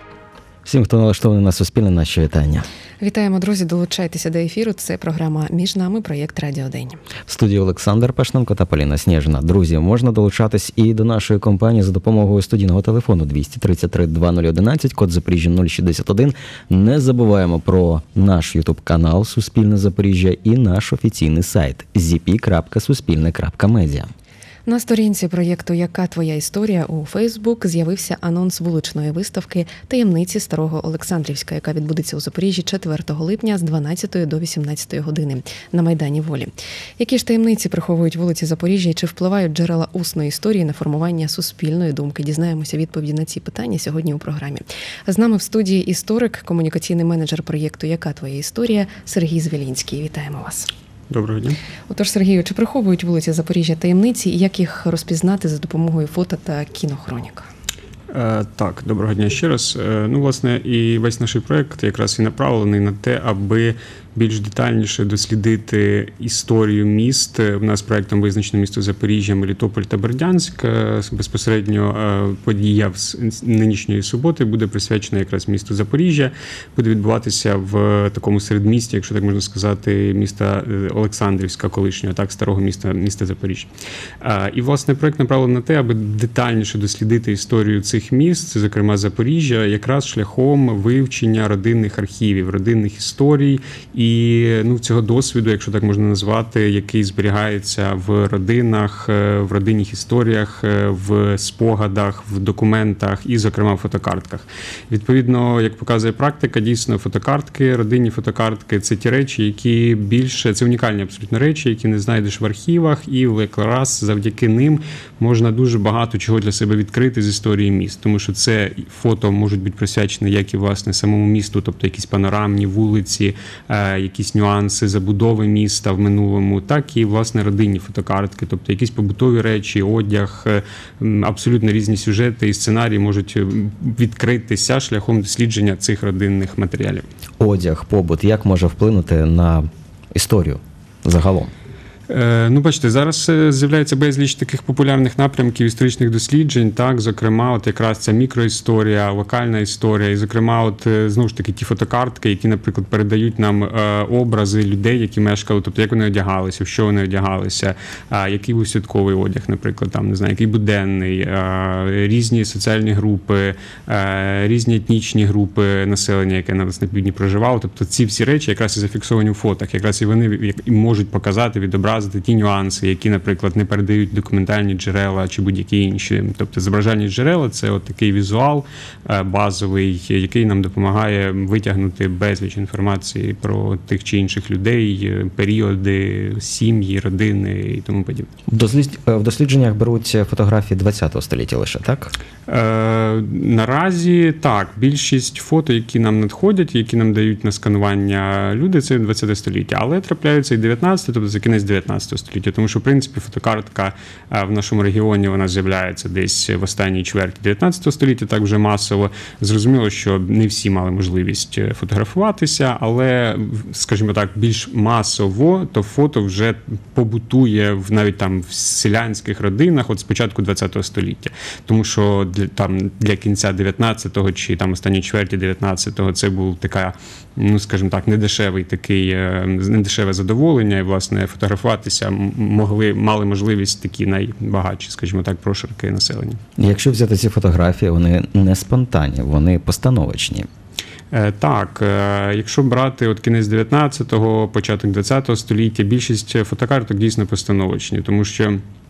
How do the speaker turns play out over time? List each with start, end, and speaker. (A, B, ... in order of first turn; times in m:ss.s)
0:00.6-0:02.6 A
0:03.0-0:07.0 B
0:07.3-0:24.1 A
0:24.6-0:50.7 B
0:51.1-0:51.6 C
0:51.9-0:57.5 B
0:58.1-1:23.7 C
1:24.2-2:17.0 C
2:17.4-2:21.5 A
2:22.1-3:08.3 C
3:08.5-3:12.1 A
3:12.5-3:56.4 C
3:56.6-4:00.5 A
4:01.1-4:08.6 C